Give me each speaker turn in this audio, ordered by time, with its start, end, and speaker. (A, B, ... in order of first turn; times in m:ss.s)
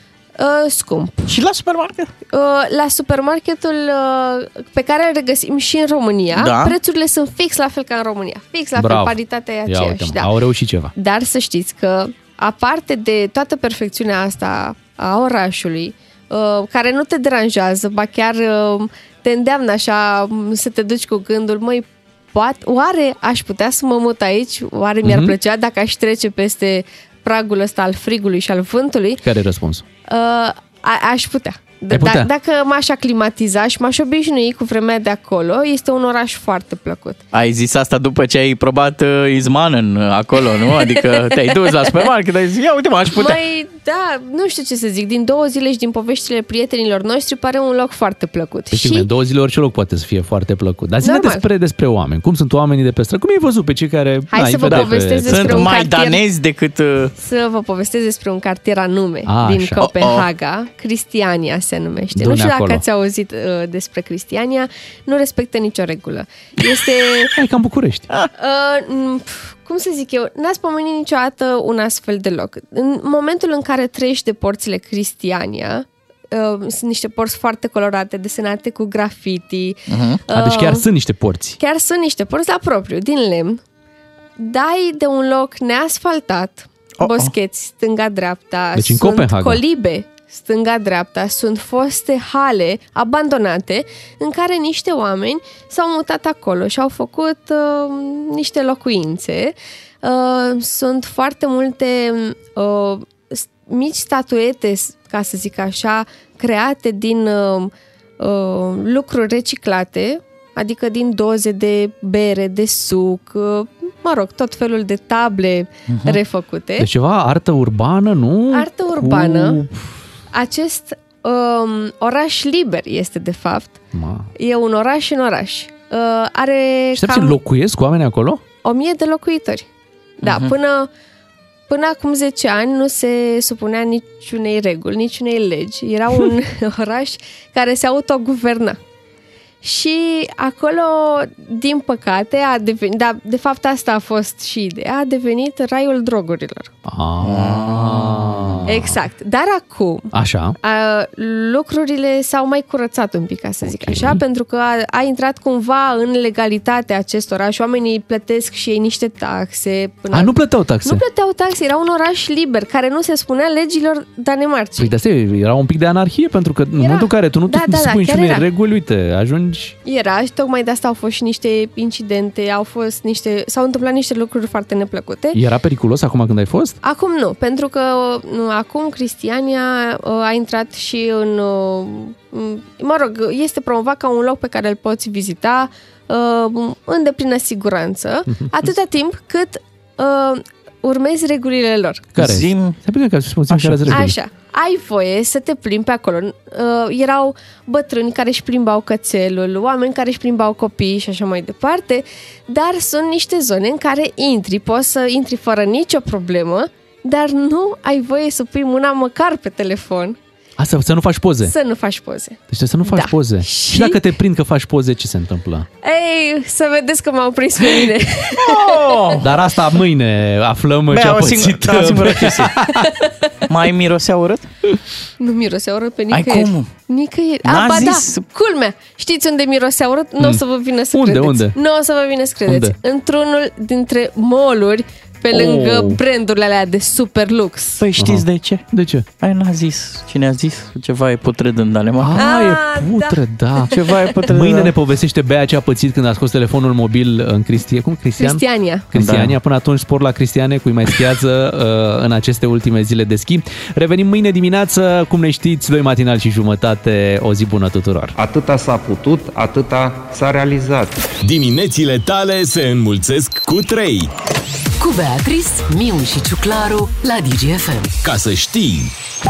0:00.4-0:01.4 A
0:01.3-0:02.1 B
0:02.3-0:10.3 A
0:06.4-0:06.8 B
0:08.8-0:10.9 C
0:11.0-0:29.2 A
0:25.0-0:25.4 C
0:29.2-0:29.8 C
0:30.1-0:37.2 A
0:31.9-0:32.3 C
0:37.3-0:43.4 B
0:40.8-0:41.5 A
0:43.1-0:49.1 A
0:48.7-0:55.7 C
0:51.0-0:51.5 A
0:54.3-0:56.2 A
0:54.7-0:57.1 B
0:57.2-1:07.3 A
0:59.3-0:59.8 C
0:59.8-1:00.3 B
1:02.2-1:02.8 C
1:07.3-1:08.1 C
1:08.4-1:20.9 A
1:19.9-1:20.2 B
1:20.3-1:21.6 C
1:21.6-1:23.6 A
1:24.4-1:56.9 A
1:27.0-1:27.3 B
1:28.8-1:29.6 C
1:55.9-1:56.2 B
1:56.8-2:00.0 C
1:58.5-1:59.6 A
2:00.3-2:03.8 A
2:03.9-2:04.3 C
2:04.4-2:07.4 A
2:07.0-2:08.4 C
2:08.6-2:09.7 A
2:10.2-2:10.9 A
2:10.2-2:10.6 B
2:11.7-2:18.8 A
2:19.6-2:26.7 A
2:26.8-2:29.0 C
2:27.2-2:28.5 B
2:28.7-2:44.9 A
2:30.1-2:30.6 C
2:33.6-2:34.2 C
2:40.1-2:41.0 C
2:44.8-2:49.8 C
2:46.8-2:48.5 A
2:49.8-2:55.4 A
2:55.3-2:56.8 C
2:56.8-3:12.1 A
3:12.2-3:14.2 C
3:12.2-3:12.8 B
3:13.5-3:14.0 B
3:13.9-3:30.2 A
3:30.6-3:31.6 C
3:31.4-3:34.0 A
3:32.5-3:35.7 C
3:35.8-3:39.2 A
3:38.4-3:39.3 B
3:39.2-3:42.9 C
3:40.9-3:42.6 B
3:43.5-3:44.5 B
3:45.2-3:57.8 A
3:46.1-3:46.7 B
3:47.4-3:48.2 B
3:50.9-3:51.6 C
3:52.5-3:52.8 C
3:55.3-3:56.0 C
3:57.8-3:58.6 B
3:58.0-3:59.1 C
3:59.2-4:02.3 B
4:02.0-4:03.8 C
4:02.2-4:03.7 A
4:03.7-4:04.7 B
4:04.3-4:18.2 C
4:08.2-4:08.9 A
4:09.0-4:09.4 B
4:18.2-4:21.0 D
4:21.2-4:24.1 E
4:24.8-4:27.9 F
4:28.0-4:28.9 E